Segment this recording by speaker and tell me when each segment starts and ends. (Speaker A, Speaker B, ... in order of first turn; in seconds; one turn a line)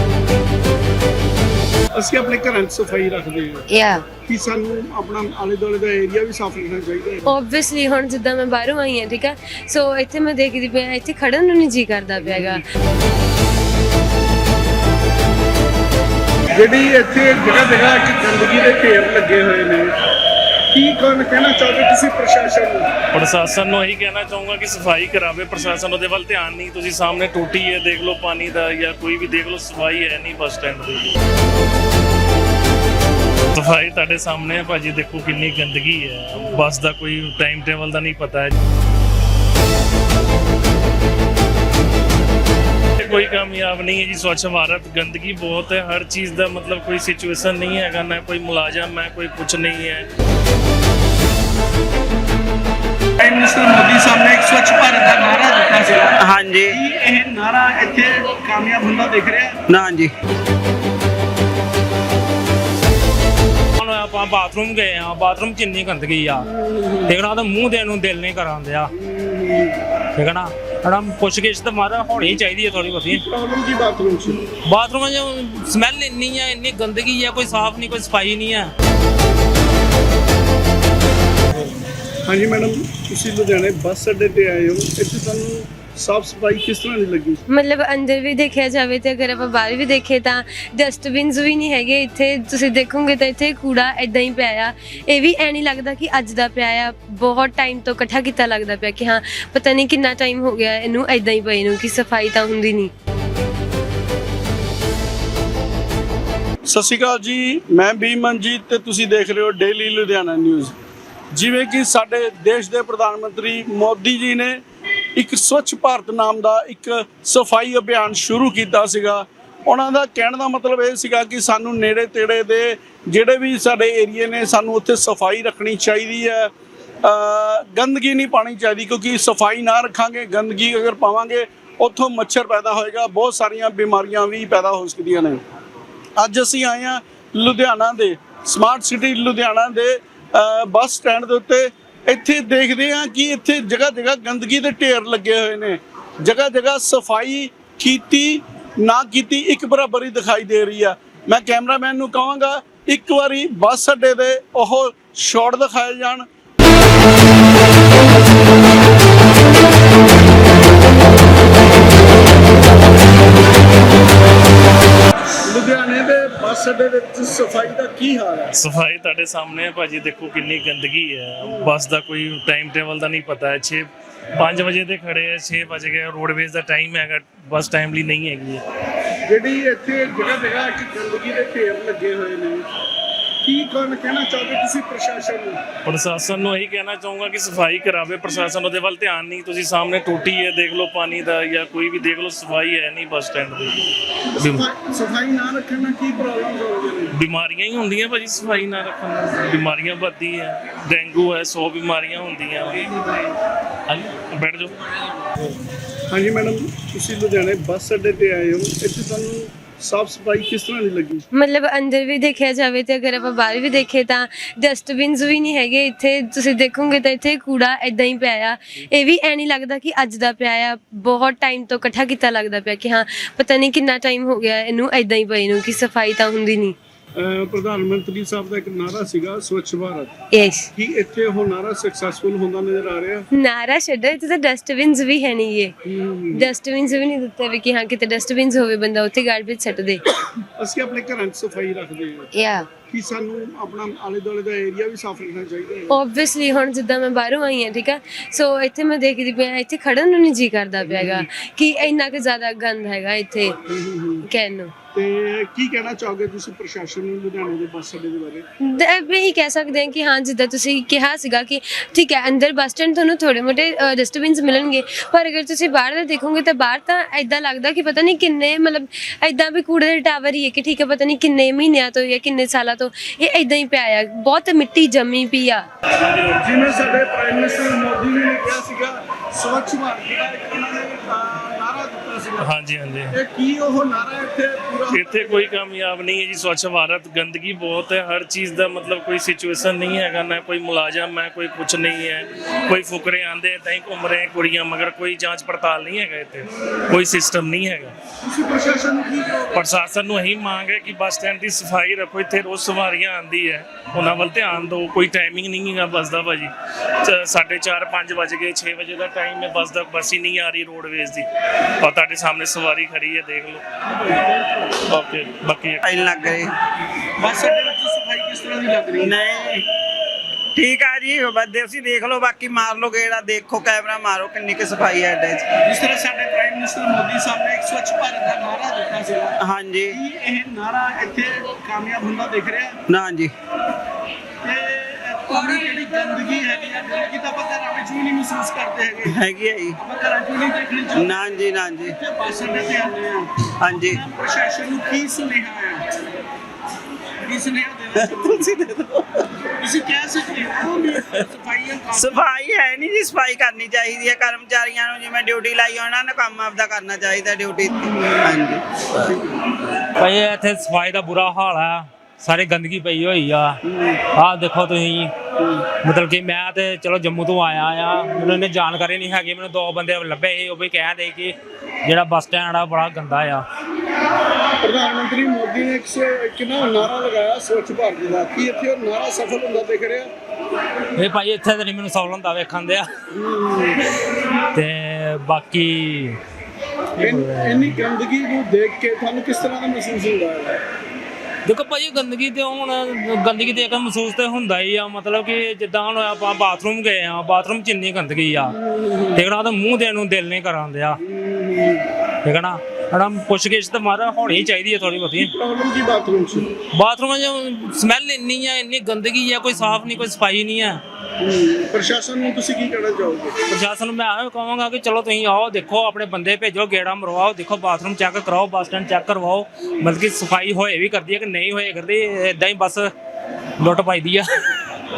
Speaker A: 1.9-7.3
Speaker B: 3.7-4.1
Speaker B: 7.3-12.6
Speaker A: 12.2-12.6
Speaker A: 16.5-19.9
Speaker A: 20.7-22.9
Speaker C: 23.1-31.1
Speaker C: 33.5-38.5
Speaker C: 43.0-50.1
Speaker A: 53.2-59.6
Speaker D: 56.2-56.8
Speaker D: 59.7-60.1
Speaker E: 63.8-68.9
Speaker A: 66.6-67.1
Speaker A: 68.9-69.8
Speaker E: 70.2-73.2
Speaker A: 73.1-74.4
Speaker E: 74.6-78.7
Speaker A: 82.2-87.4
Speaker B: 87.5-102.9
Speaker A: 106.7-110.7
Speaker A: 111.3-114.6
Speaker A: 115.2-126.5
Speaker A: 127.0-135.4
Speaker A: 136.2-156.2
Speaker A: 165.4-168.5
Speaker C: 168.5-178.6
Speaker A: 171.4-171.7
Speaker A: 179.2-182.7
Speaker A: 183.4-185.6
Speaker C: 185.8-193.9
Speaker A: 194.3-197.1
Speaker C: 194.4-194.7
Speaker C: 197.2-203.3
Speaker C: 203.9-205.3
Speaker A: 206.1-211.3
Speaker B: 211.3-226.7
Speaker A: 227.2-230.1
Speaker B: 230.3-230.7
Speaker A: 230.7-233.3
Speaker B: 233.3-235.7
Speaker A: 235.8-236.5
Speaker B: 236.3-240.0
Speaker A: 240.5-246.0
Speaker B: 242.3-242.7
Speaker B: 245.9-253.6
Speaker A: 250.8-251.3
Speaker A: 253.7-254.3
Speaker B: 254.2-254.7
Speaker A: 254.9-258.4
Speaker B: 258.6-275.6
Speaker A: 276.1-282.5
Speaker C: 282.4-283.1
Speaker A: 283.1-285.5
Speaker C: 284.9-297.9
Speaker A: 298.2-299.6
Speaker C: 299.5-311.2
Speaker C: 311.8-313.6
Speaker A: 313.9-314.8
Speaker C: 314.8-316.1
Speaker D: 315.8-316.5
Speaker A: 317.2-319.2
Speaker D: 319.0-319.6
Speaker D: 320.5-325.5
Speaker A: 325.5-332.8
Speaker D: 329.4-329.9
Speaker D: 332.9-333.3
Speaker A: 334.4-339.2
Speaker D: 339.1-339.8
Speaker A: 339.7-346.0
Speaker D: 340.9-341.9
Speaker D: 343.6-344.0
Speaker A: 347.2-348.5
Speaker D: 347.9-349.1
Speaker A: 349.6-352.4
Speaker D: 351.9-359.0
Speaker A: 358.0-358.3
Speaker A: 359.0-359.5
Speaker E: 359.8-365.1
Speaker A: 363.6-364.0
Speaker A: 365.4-365.6
Speaker E: 365.7-373.4
Speaker A: 374.6-380.1
Speaker E: 380.9-382.9
Speaker A: 383.1-383.8
Speaker E: 384.5-386.2
Speaker E: 387.0-387.8
Speaker A: 387.0-390.6
Speaker E: 391.4-401.0
Speaker A: 398.6-399.2
Speaker A: 401.0-401.9
Speaker E: 402.2-405.3
Speaker A: 405.2-406.5
Speaker E: 406.6-410.8
Speaker A: 411.2-413.4
Speaker E: 413.5-422.9
Speaker E: 423.6-424.6